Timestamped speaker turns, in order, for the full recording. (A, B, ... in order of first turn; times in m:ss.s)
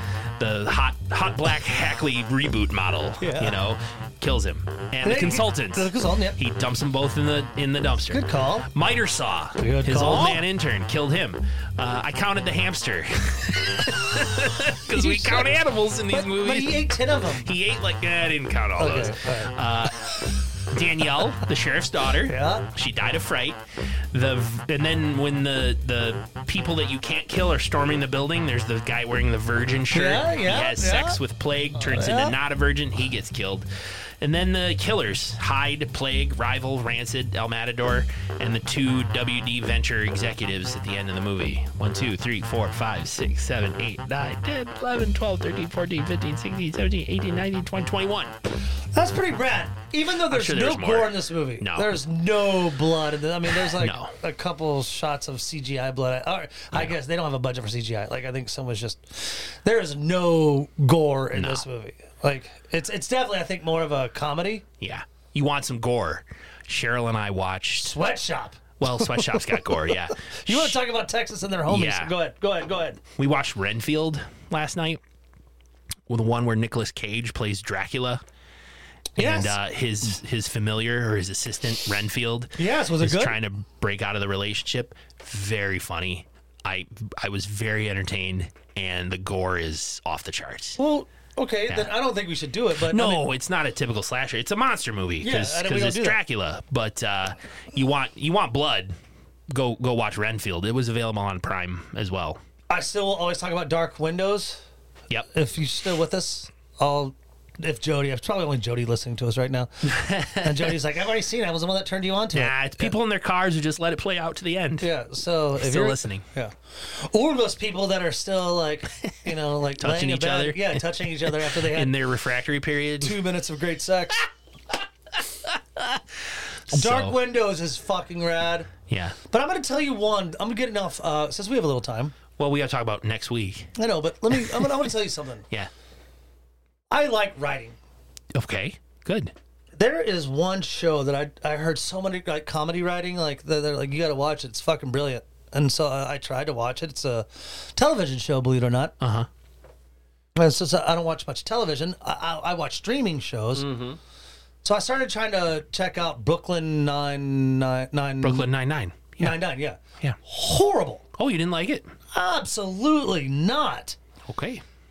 0:00.4-0:23.6 A
0:03.2-0:03.6 B
0:05.0-0:06.4 B
0:08.1-0:08.7 B
0:09.6-0:10.4 B
0:14.9-0:15.5 B
0:16.1-0:17.5 B
0:18.8-0:19.5 B
0:22.2-0:22.6 B
0:24.1-0:33.7 A
0:29.9-0:31.2 B
0:31.7-0:32.4 B
0:34.2-0:48.3 A
0:48.9-1:04.6 B
0:50.2-0:52.0 A
0:53.5-0:54.1 A
1:01.3-1:01.6 A
1:04.8-1:07.9 A
1:07.8-1:13.0 B
1:08.8-1:10.8 A
1:11.7-1:12.1 A
1:13.1-1:15.0 A
1:16.1-1:18.2 A
1:19.2-1:19.6 B
1:19.2-1:30.8 A
1:22.6-1:23.4 B
1:30.8-1:33.3 B
1:31.7-1:31.9 A
1:32.8-1:38.9 A
1:35.2-1:36.2 B
1:39.5-1:42.4 A
1:42.7-1:44.6 B
1:45.3-1:52.9 B
1:49.8-1:50.8 A
1:52.3-1:54.9 A
1:54.8-2:02.0 B
1:55.5-1:56.2 A
1:59.0-2:03.2 A
2:03.0-2:04.3 B
2:05.4-2:06.2 A
2:06.7-2:07.2 A
2:06.7-2:08.7 B
2:08.9-2:09.2 A
2:09.3-2:12.1 B
2:12.4-2:13.7 A
2:13.8-2:15.4 B
2:14.3-2:14.9 A
2:16.9-2:17.8 B
2:18.3-2:19.3 A
2:19.8-2:28.9 B
2:29.0-2:29.3 A
2:30.4-2:33.8 B
2:33.5-2:34.0 A
2:34.6-2:38.5 B
2:38.2-2:39.4 A
2:39.2-2:41.0 B
2:41.2-2:41.9 A
2:42.1-2:44.0 B
2:44.3-2:44.6 A